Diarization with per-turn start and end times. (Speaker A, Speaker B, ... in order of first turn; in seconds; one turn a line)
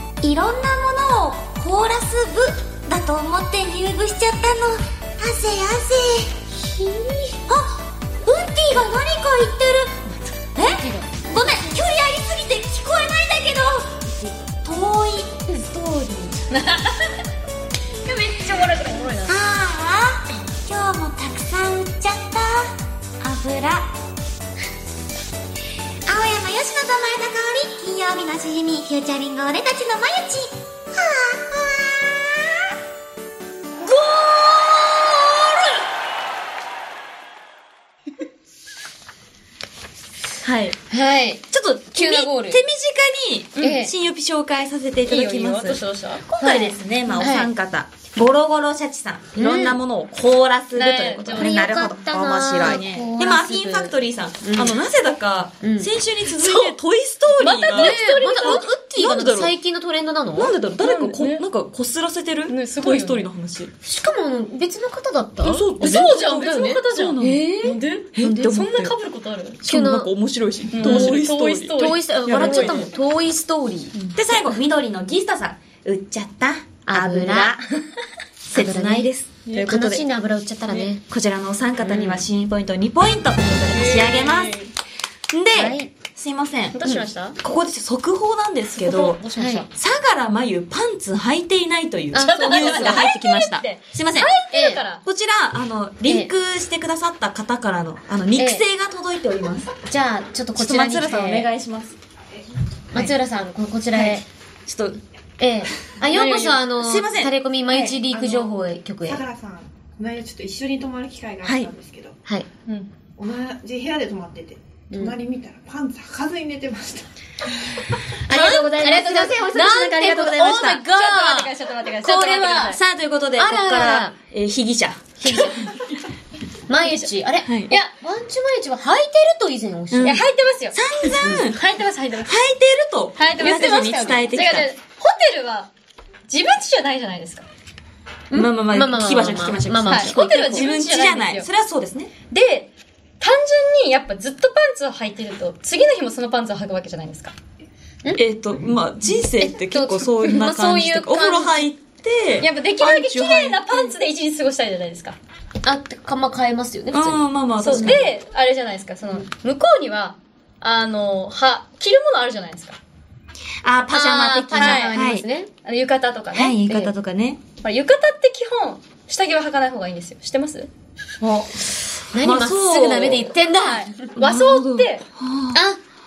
Speaker A: 0.2-6.4
Speaker B: 6.7-7.3
Speaker A: 7.5-10.0
Speaker A: 10.6-14.0
Speaker B: 10.8-11.1
Speaker A: 14.6-16.0
Speaker C: 15.8-16.3
Speaker D: 16.5-17.1
Speaker D: 18.6-19.3
Speaker A: 19.3-23.9
Speaker A: 26.1-32.4
Speaker C: 40.4-40.8
Speaker B: 40.9-42.6
Speaker C: 41.5-59.5
Speaker B: 43.6-43.9
Speaker D: 45.0-46.2
Speaker B: 46.4-47.5
Speaker B: 49.4-49.8
Speaker D: 50.7-51.7
Speaker B: 51.3-54.8
Speaker D: 52.6-53.1
Speaker B: 55.6-55.9
Speaker D: 56.4-56.8
Speaker D: 57.3-58.7
Speaker B: 57.7-60.5
Speaker C: 60.3-63.7
Speaker D: 60.8-61.4
Speaker D: 62.5-63.3
Speaker B: 63.8-68.5
Speaker C: 65.4-68.9
Speaker D: 65.8-69.6
Speaker C: 69.6-72.9
Speaker B: 69.6-70.1
Speaker D: 70.7-72.9
Speaker B: 70.8-71.2
Speaker B: 71.7-73.9
Speaker C: 74.1-77.7
Speaker B: 76.8-77.6
Speaker C: 78.5-80.0
Speaker B: 78.5-79.1
Speaker D: 79.5-79.7
Speaker B: 79.6-81.0
Speaker C: 80.7-84.6
Speaker B: 81.8-82.2
Speaker D: 83.7-84.7
Speaker C: 85.3-86.8
Speaker B: 85.5-85.9
Speaker D: 86.7-87.4
Speaker C: 87.4-94.3
Speaker D: 88.8-89.7
Speaker B: 89.3-89.6
Speaker B: 92.1-93.0
Speaker D: 92.2-95.0
Speaker B: 94.5-94.8
Speaker C: 95.0-99.7
Speaker B: 96.0-96.3
Speaker B: 98.3-98.6
Speaker B: 99.8-101.5
Speaker C: 100.5-102.0
Speaker B: 102.9-104.2
Speaker C: 103.9-105.0
Speaker B: 105.4-109.2
Speaker D: 106.1-106.6
Speaker C: 106.7-107.3
Speaker E: 107.9-112.2
Speaker C: 111.4-111.7
Speaker E: 113.2-117.1
Speaker B: 114.9-115.2
Speaker C: 118.2-120.8
Speaker B: 118.3-122.8
Speaker D: 120.8-122.8
Speaker C: 122.4-125.1
Speaker B: 123.3-124.1
Speaker B: 125.2-125.6
Speaker B: 126.7-130.2
Speaker D: 126.8-127.1
Speaker C: 127.4-127.7
Speaker C: 129.9-131.6
Speaker D: 130.0-130.8
Speaker D: 131.4-132.3
Speaker C: 132.2-134.7
Speaker D: 133.2-135.7
Speaker D: 136.3-137.5
Speaker B: 138.3-140.6
Speaker C: 138.3-142.1
Speaker D: 139.9-141.5
Speaker D: 142.3-147.3
Speaker C: 148.1-153.9
Speaker B: 149.4-151.7
Speaker D: 152.4-155.2
Speaker B: 155.6-158.0
Speaker C: 156.9-158.1
Speaker D: 157.6-162.8
Speaker C: 163.6-165.2
Speaker B: 163.9-165.5
Speaker D: 164.5-165.0
Speaker D: 165.6-166.6
Speaker C: 166.3-167.4
Speaker B: 166.7-166.9
Speaker D: 167.6-170.7
Speaker C: 171.2-173.3
Speaker B: 172.1-174.1
Speaker D: 173.6-175.0
Speaker C: 174.2-175.6
Speaker B: 175.5-175.8